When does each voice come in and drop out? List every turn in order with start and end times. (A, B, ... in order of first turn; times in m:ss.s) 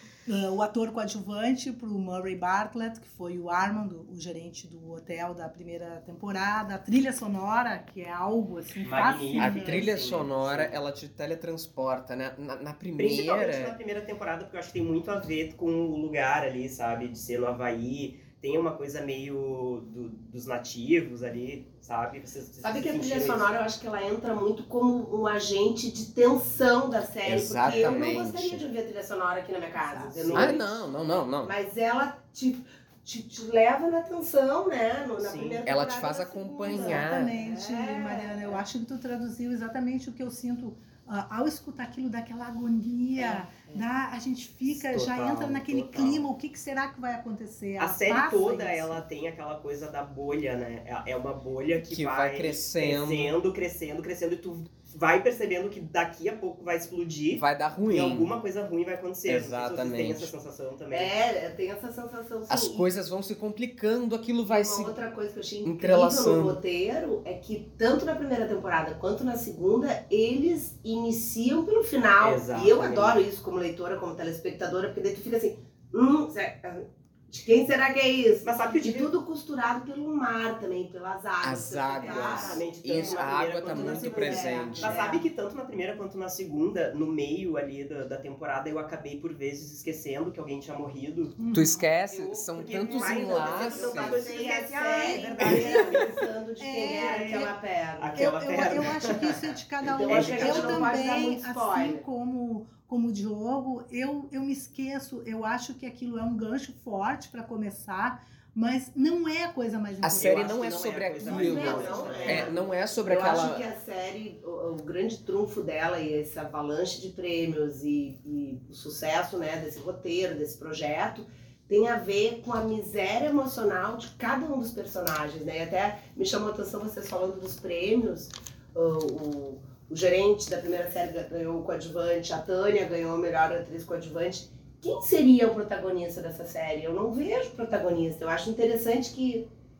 0:00.3-0:09.9 A
0:08.8-0:10.8 B
0:09.4-0:13.8 C
0:13.0-0:23.6 B
0:22.6-0:38.6 D
0:27.2-0:28.6 C
0:27.6-0:28.0 B
0:29.8-0:30.2 A
0:30.2-0:30.6 B
0:30.3-0:31.5 C
0:35.2-0:35.6 B
0:35.7-0:37.3 C
0:36.6-0:49.0 A
0:43.2-0:43.8 D
0:44.7-0:46.3 B
0:47.8-1:01.2 B
0:51.8-0:53.3 C
0:57.3-0:58.3 C
0:59.3-1:00.3 C
1:00.9-1:02.9 D
1:02.5-1:05.0 C
1:04.5-1:23.2 D
1:05.6-1:06.6 C
1:12.2-1:13.2 B
1:18.4-1:19.1 B
1:21.4-1:25.0 C
1:22.0-1:23.2 A
1:22.2-1:31.4 B
1:23.7-1:25.3 D
1:23.8-1:24.9 A
1:31.4-1:31.9 A
1:31.5-1:34.3 C
1:32.1-1:38.4 D
1:32.6-1:36.3 B
1:34.8-1:37.5 A
1:36.8-1:41.0 B
1:38.2-1:50.6 A
1:39.8-1:42.0 D
1:50.0-1:53.7 C
1:50.2-1:52.6 B
1:51.2-2:19.5 D
1:51.3-1:52.4 A